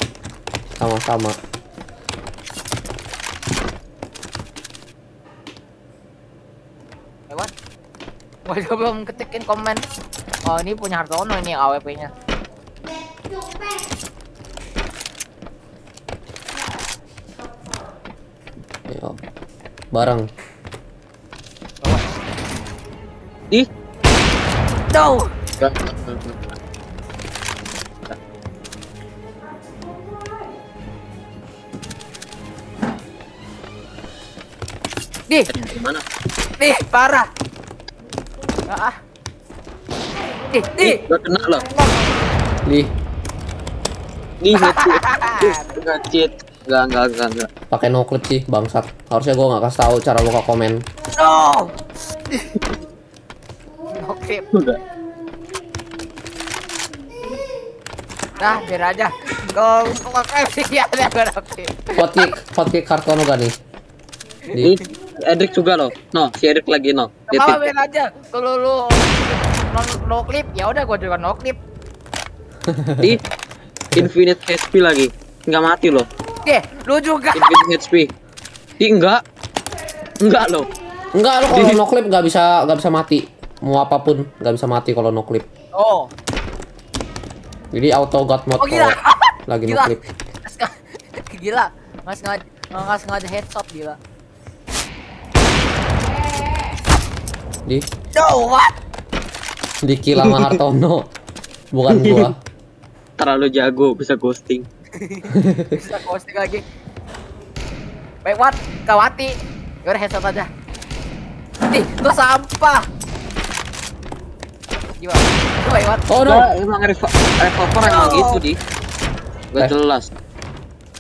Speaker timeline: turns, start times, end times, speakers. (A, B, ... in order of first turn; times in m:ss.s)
0:00.8-0:01.4 A
0:08.5-0:09.8 B
0:10.5-0:12.1 B
0:18.9-0:19.2 A
0:19.9-0:20.3 A
0:21.8-0:22.2 B
0:24.9-0:25.3 B
0:25.6-0:26.5 C
0:35.5-0:36.0 C
0:36.6-0:37.3 B
0:38.7-0:39.0 B
0:40.5-0:41.0 B
0:40.8-0:41.7 C
0:41.8-0:42.1 B
0:42.7-0:42.9 A
0:44.4-0:47.5 C
0:44.5-0:45.7 B
0:47.7-0:50.8 A
0:51.2-0:51.8 B
0:52.3-0:52.6 B
0:53.9-0:54.5 B
0:54.5-0:54.8 C
0:58.4-1:02.3 B
1:02.0-1:03.5 A
1:04.5-1:07.6 C
1:07.3-1:11.6 B
1:12.7-1:13.2 A
1:13.9-1:16.1 C
1:16.4-1:17.6 B
1:17.3-1:18.1 C
1:18.8-1:19.2 C
1:20.2-1:20.7 C
1:21.1-1:25.5 A
1:21.5-1:21.8 C
1:25.7-1:26.1 B
1:27.7-1:29.0 A
1:28.6-1:34.0 B
1:29.5-1:30.0 A
1:38.2-1:38.7 B
1:39.8-1:41.1 A
1:40.2-1:40.6 C
1:41.7-1:42.4 A
1:41.9-1:42.3 C
1:43.2-1:44.7 C
1:45.0-1:46.6 B
1:45.3-1:45.8 A
1:48.2-1:50.5 B
1:51.7-1:52.9 B
1:54.8-1:56.1 B
1:56.1-1:56.5 A
1:56.2-1:58.6 C
1:57.8-1:58.4 B
1:59.5-2:00.1 C